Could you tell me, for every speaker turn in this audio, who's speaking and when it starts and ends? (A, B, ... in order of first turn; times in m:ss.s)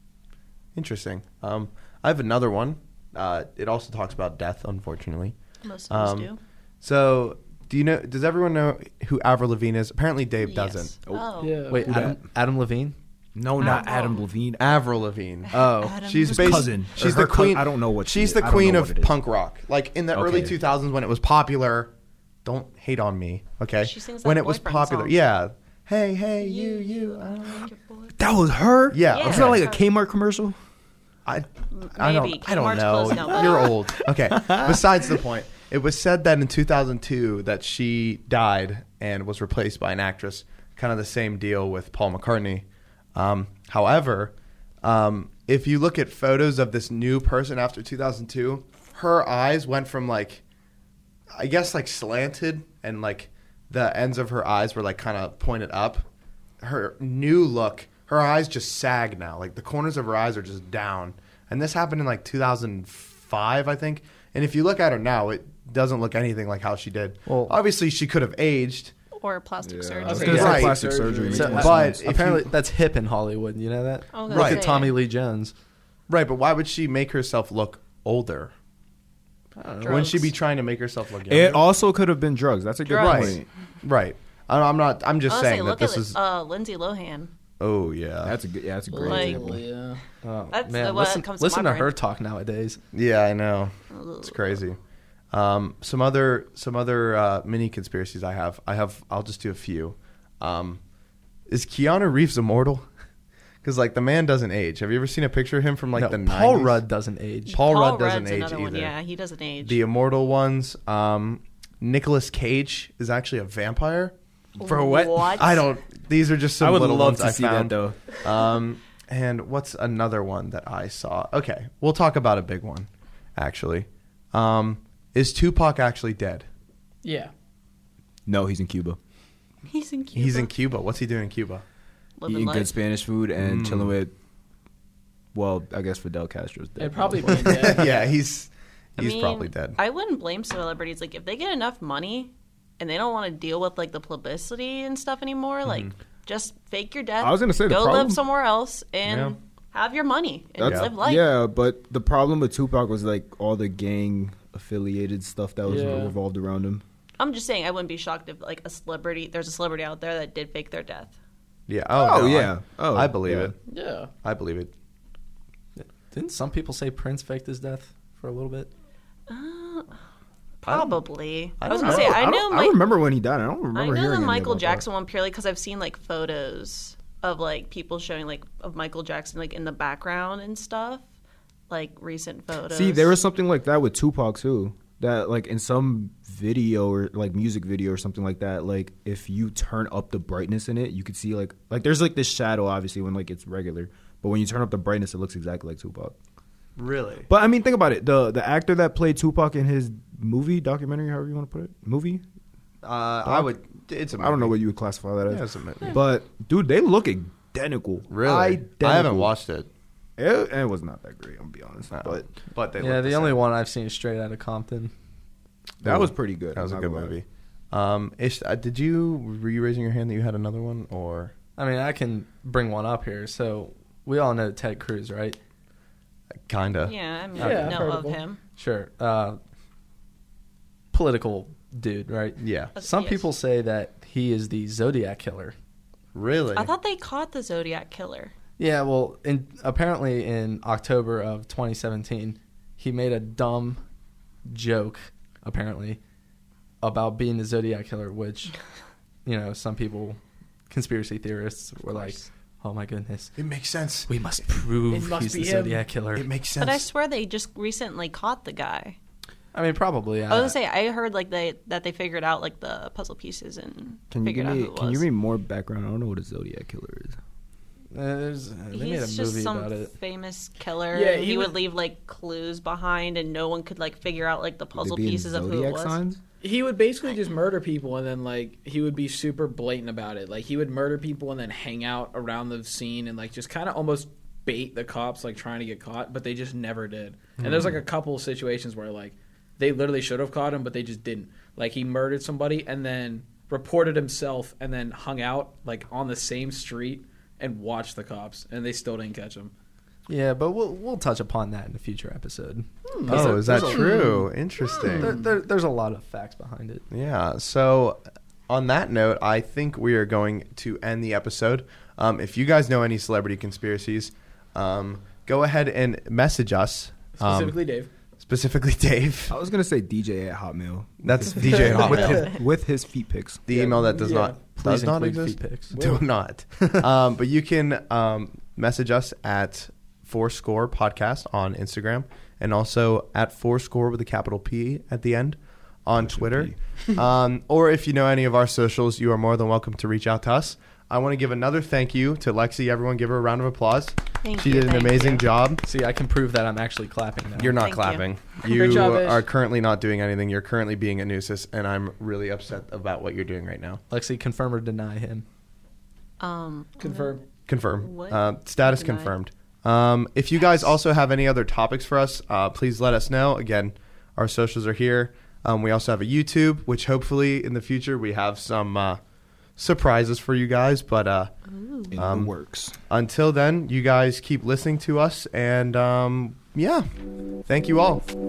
0:00.8-0:05.4 A
0:05.6-0:06.4 B
0:05.9-0:11.0 A
0:10.4-0:11.6 B
0:11.4-0:11.9 C
0:11.7-0:13.0 D
0:11.8-0:12.2 E
0:13.4-0:14.6 E
0:13.6-0:14.3 B
0:14.6-0:21.9 A
0:15.5-0:16.9 B
0:15.5-0:16.0 D
0:16.3-0:19.2 E
0:20.1-0:20.6 E
0:22.4-0:27.7 A
0:23.8-0:25.2 B
0:26.4-0:28.2 B
0:28.2-0:30.6 E
0:28.9-0:29.6 A
0:29.1-0:29.8 B
0:31.3-0:50.4 A
0:31.7-0:33.9 B
0:33.4-0:35.2 E
0:51.4-0:56.0 A
0:56.6-1:09.0 A
1:07.3-1:07.6 D
1:09.2-1:10.6 B
1:09.6-1:12.1 E
1:10.0-1:11.8 C
1:10.2-1:10.7 D
1:10.2-1:12.5 A
1:11.3-1:15.5 D
1:14.1-1:15.0 B
1:14.3-1:14.6 A
1:16.1-1:18.5 A
1:19.6-1:20.2 D
1:19.8-1:20.3 B
1:19.9-1:21.6 A
1:21.3-1:23.5 E
1:22.9-1:23.4 B
1:23.0-1:26.2 A
1:25.3-1:27.3 B
1:27.6-1:28.4 A
1:28.2-1:29.6 E
1:28.9-1:30.0 C
1:29.0-1:29.4 B
1:30.2-1:32.8 D
1:30.5-1:31.9 B
1:32.9-1:34.8 A
1:33.9-1:34.6 B
1:35.3-1:40.8 A
1:41.5-1:42.9 A
1:43.6-1:46.8 A
1:46.0-1:47.6 D
1:47.5-1:49.8 B
1:47.5-1:49.0 A
1:49.6-1:54.2 A
1:54.6-1:55.6 E
1:54.6-1:55.7 B
1:55.4-2:06.5 A
1:56.6-1:58.0 E
2:07.0-2:07.3 C
2:08.3-2:09.0 E
2:09.7-2:10.5 B
2:10.2-2:11.6 A
2:12.2-2:12.7 B
2:12.3-2:14.1 E
2:13.4-2:13.9 A
2:15.3-2:17.9 E
2:16.8-2:18.1 C
2:17.4-2:19.8 A
2:19.0-2:31.3 B
2:25.6-2:25.9 A
2:27.2-2:28.2 E
2:29.0-2:29.4 A
2:30.6-2:36.8 E
2:30.6-2:30.9 A
2:35.6-2:36.1 C
2:37.2-2:41.2 B
2:41.7-2:43.6 A
2:42.0-2:43.5 E
2:43.7-2:44.1 C
2:44.2-2:44.7 A
2:45.8-2:48.7 D
2:49.3-2:50.0 B
2:50.6-2:52.8 B
2:50.7-2:51.0 A
2:51.6-2:52.3 A
2:51.7-2:54.9 E
2:53.7-3:01.0 B
3:01.7-3:03.1 B
3:02.7-3:16.2 E
3:16.8-3:17.3 A
3:17.3-3:22.2 E
3:22.8-3:24.6 A
3:24.2-3:29.4 E
3:25.3-3:26.0 A
3:28.1-3:29.7 A
3:30.2-3:32.3 E
3:31.9-3:33.4 A
3:32.8-3:34.9 D
3:35.8-3:37.2 E
3:35.8-3:41.3 A
3:41.6-3:45.4 D
3:46.5-3:47.0 A
3:46.8-3:48.4 B
3:47.4-3:48.2 C
3:47.4-3:47.9 D
3:48.6-3:49.4 D
3:50.9-3:55.6 D
3:52.4-3:52.7 A
3:52.8-3:53.2 B
3:56.1-3:56.7 A
3:56.6-3:58.3 B
3:58.6-4:03.8 D
4:04.5-4:06.0 D
4:06.8-4:08.6 D
4:09.2-4:13.4 D
4:11.9-4:12.3 B
4:13.4-4:14.1 A
4:14.1-4:16.3 D
4:14.9-4:15.8 C
4:16.2-4:16.9 A
4:16.6-4:19.0 B
4:19.5-4:20.6 D
4:20.3-4:25.1 B
4:24.1-4:27.2 E
4:27.9-4:29.9 D
4:28.7-4:36.0 B
4:30.9-4:31.6 C
4:34.8-4:36.2 E
4:36.4-4:59.5 C
4:47.4-4:47.8 A
5:00.1-5:04.2 D
5:02.9-5:05.3 C
5:03.1-5:05.2 A
5:05.0-5:06.9 D
5:06.9-5:17.6 A
5:17.2-5:17.9 C
5:18.2-5:19.3 A
5:19.3-5:23.4 E
5:21.0-5:22.4 A
5:21.4-5:22.3 C
5:21.7-5:22.4 B
5:23.5-5:45.6 A
5:23.5-5:24.4 C
5:24.6-5:25.8 D
5:26.6-5:26.8 D
5:36.0-5:36.6 E
5:44.2-5:45.3 B
5:45.6-5:47.6 D
5:47.4-5:53.8 A
5:47.6-5:48.0 B
5:48.4-5:49.2 C
5:53.9-5:55.3 D
5:56.2-5:57.2 B
5:56.8-5:57.2 C
5:57.5-6:09.0 A
5:57.8-5:59.1 B
6:09.6-6:11.3 A
6:11.5-6:12.0 B
6:11.9-6:12.8 E
6:12.0-6:12.3 A
6:12.9-6:16.9 A
6:17.5-6:18.0 A